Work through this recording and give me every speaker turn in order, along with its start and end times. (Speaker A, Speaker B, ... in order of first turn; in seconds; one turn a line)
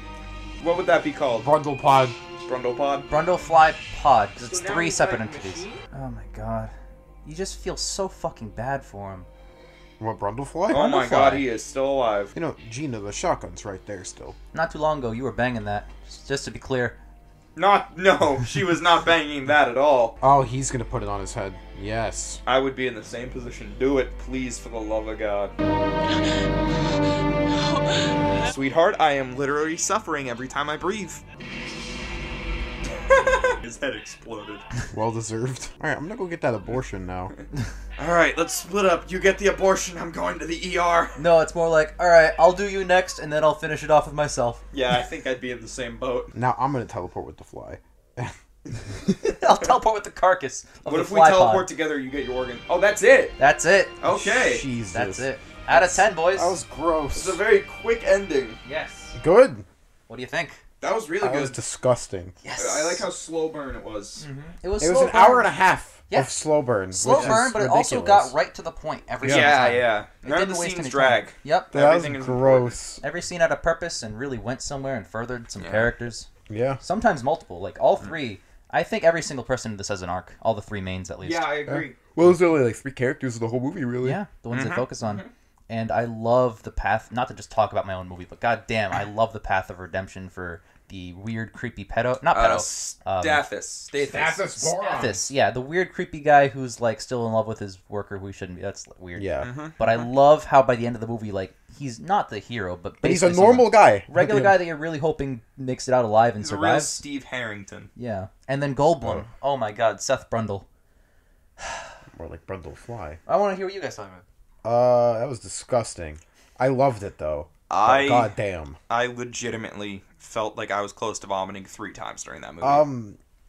Speaker A: 0.6-1.5
Speaker B: 1.4-2.2
Speaker A: 2.5-3.1
Speaker C: 3.1-9.3
Speaker A: 4.4-5.8
Speaker B: 10.0-10.8
Speaker C: 10.7-11.5
Speaker A: 10.7-12.3
Speaker B: 12.3-14.4
Speaker C: 14.5-17.0
Speaker A: 17.6-20.2
Speaker B: 20.2-22.4
Speaker A: 22.5-25.5
Speaker A: 28.4-31.2
Speaker A: 32.9-34.6
Speaker B: 34.9-37.3
Speaker A: 38.0-41.2
Speaker C: 41.2-44.6
Speaker A: 44.7-46.3
Speaker B: 46.3-49.1
Speaker C: 49.3-51.7
Speaker A: 50.9-53.4
Speaker C: 53.4-54.0
Speaker A: 54.0-54.6
Speaker B: 54.1-57.4
Speaker C: 54.9-56.6
Speaker A: 57.1-58.6
Speaker C: 58.6-59.2
Speaker B: 59.1-59.7
Speaker C: 60.1-60.6
Speaker A: 60.8-61.6
Speaker B: 61.2-62.4
Speaker C: 62.4-63.1
Speaker A: 62.6-64.2
Speaker C: 64.2-65.5
Speaker B: 64.8-68.3
Speaker C: 66.1-66.4
Speaker C: 66.9-71.7
Speaker A: 67.1-67.4
Speaker B: 69.2-69.5
Speaker A: 69.2-72.8
Speaker B: 71.7-73.0
Speaker C: 73.0-76.3
Speaker A: 75.6-75.9
Speaker B: 76.5-76.8
Speaker C: 76.8-81.5
Speaker A: 81.2-82.0
Speaker B: 81.7-84.2
Speaker C: 84.0-93.4
Speaker A: 84.5-85.3
Speaker A: 92.3-95.0
Speaker B: 94.0-95.3
Speaker C: 94.6-107.0
Speaker B: 99.2-99.5
Speaker A: 99.4-99.9
Speaker B: 103.0-104.6
Speaker A: 106.4-107.9
Speaker C: 108.0-110.7
Speaker B: 112.1-113.2
Speaker C: 113.3-114.2
Speaker B: 114.6-118.8
Speaker A: 117.7-118.4
Speaker A: 118.9-122.9
Speaker B: 122.6-123.2